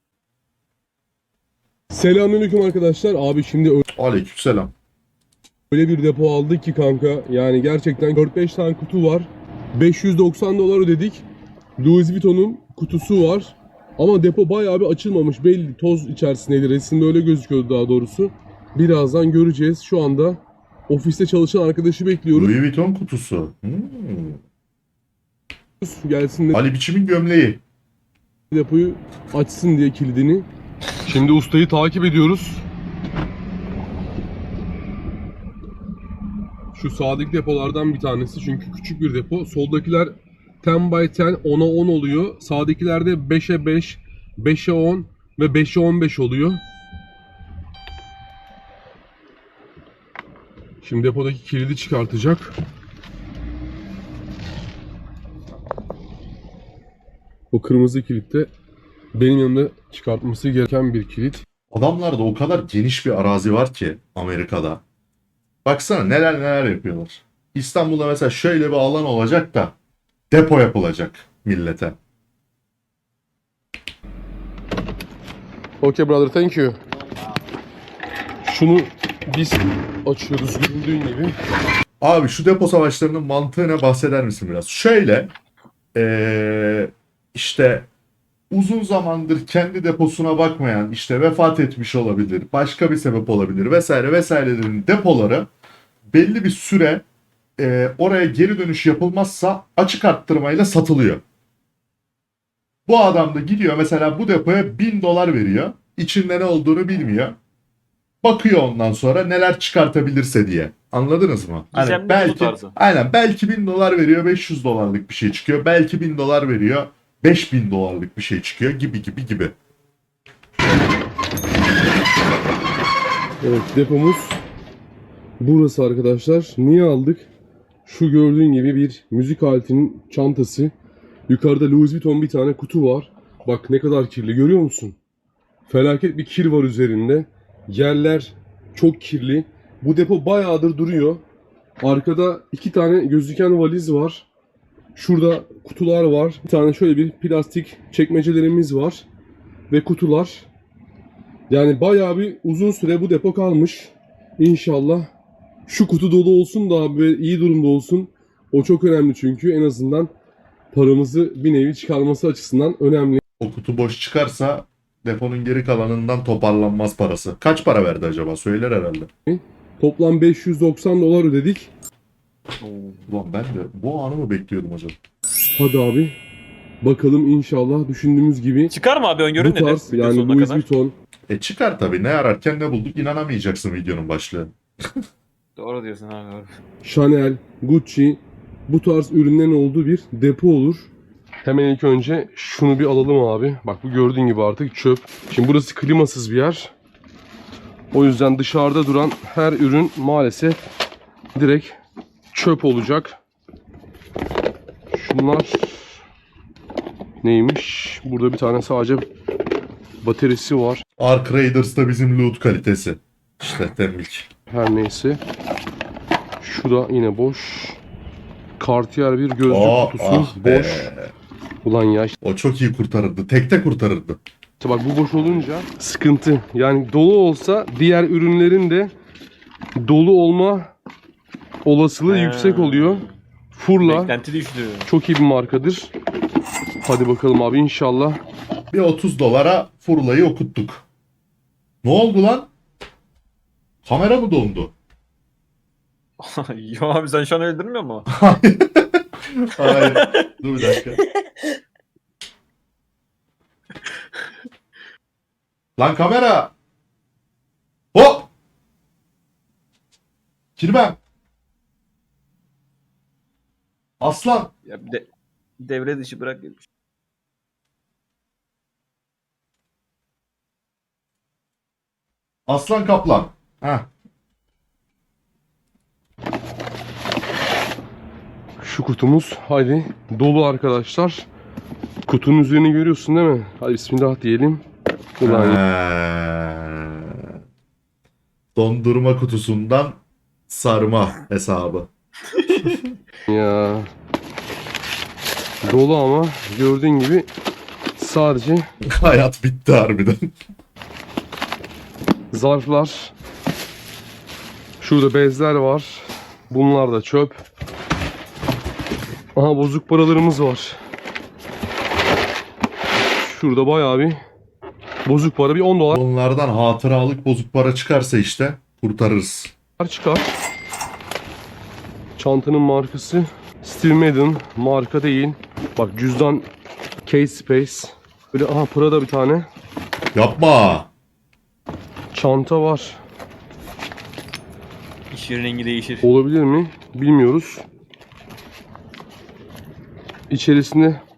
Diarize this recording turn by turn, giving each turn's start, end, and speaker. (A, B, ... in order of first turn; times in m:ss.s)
0:01.9-0:03.8 A
0:03.9-0:04.7 B
0:05.7-0:11.2 A
0:11.8-0:22.5 A
0:22.3-0:24.4 B
0:25.8-0:26.6 A
0:26.5-0:27.6 B
0:28.5-0:30.5 A
0:31.1-0:32.6 A
0:36.8-0:46.6 A
0:50.8-0:52.6 A
0:57.5-0:58.5 A
0:59.1-1:01.4 A
1:01.7-1:04.8 B
1:05.6-1:09.8 B
1:10.3-1:12.0 B
1:15.8-1:16.8 A
1:18.4-1:21.4 A
1:22.0-1:25.3 B
1:26.0-1:27.9 B
1:28.5-1:35.5 B
1:36.1-1:37.0 B
1:37.6-1:41.2 B
1:42.9-1:47.4 B
1:48.2-1:59.6 B
1:51.7-1:52.8 C
2:03.4-2:04.4 A
2:05.4-2:07.3 A
2:07.9-2:10.7 A
2:11.3-2:15.0 A
2:15.7-2:21.2 A
2:21.8-2:24.3 A
2:25.0-2:29.0 A
2:29.7-2:30.5 A
2:31.5-2:35.1 A
2:35.7-2:40.1 A
2:40.7-2:43.2 A
2:43.4-2:49.1 B
2:49.3-2:51.7 A
2:52.6-2:53.1 C
2:53.1-2:55.0 B
2:55.6-2:56.2 A
2:56.8-2:58.7 A
2:58.7-3:00.6 C
2:59.4-3:01.0 A
3:01.3-3:04.5 B
3:05.6-3:06.5 C
3:06.8-3:10.9 A
3:11.4-3:16.7 A
3:17.9-3:20.6 A
3:21.3-3:21.8 A
3:22.3-3:23.2 A
3:24.9-3:26.0 A
3:27.2-3:29.1 A
3:30.0-3:30.8 A
3:31.0-3:34.3 B
3:34.5-3:35.2 A
3:36.4-3:37.8 A
3:38.6-3:40.9 A
3:39.5-3:41.1 B
3:41.6-3:42.1 A
3:42.2-3:44.2 B
3:44.6-3:48.9 A
3:49.8-3:50.7 A
3:51.6-3:54.1 A
3:52.1-3:53.2 C
3:53.8-3:54.9 C
3:54.9-3:55.9 A
3:56.8-3:58.2 A
3:58.7-4:00.8 B
4:01.8-4:02.5 B
4:03.8-4:04.7 B
4:06.2-4:08.1 C
4:08.1-4:11.0 B
4:09.6-4:11.0 C
4:15.8-4:16.5 B
4:17.9-4:18.3 B
4:20.6-4:21.0 B
4:24.0-4:24.5 B
4:24.7-4:25.1 C
4:25.6-4:26.7 C
4:32.5-4:33.9 B
4:38.6-4:41.3 A
4:42.1-4:44.6 A
4:45.2-4:45.6 A
4:45.2-4:47.3 B
4:48.6-4:51.9 B
4:53.3-4:53.9 A
4:55.6-4:57.3 A
4:58.0-4:58.7 A
4:58.8-5:00.3 B
5:02.3-5:03.1 A
5:04.8-5:07.4 A
5:09.4-5:10.8 A
5:13.1-5:14.2 A
5:15.1-5:16.0 A
5:15.9-5:19.5 B
5:19.8-5:20.3 A
5:22.2-5:26.5 A
5:27.0-5:29.5 A
5:30.1-5:30.9 B
5:32.1-5:33.0 A
5:35.1-5:36.1 C
5:36.0-5:37.6 A
5:40.3-5:41.0 A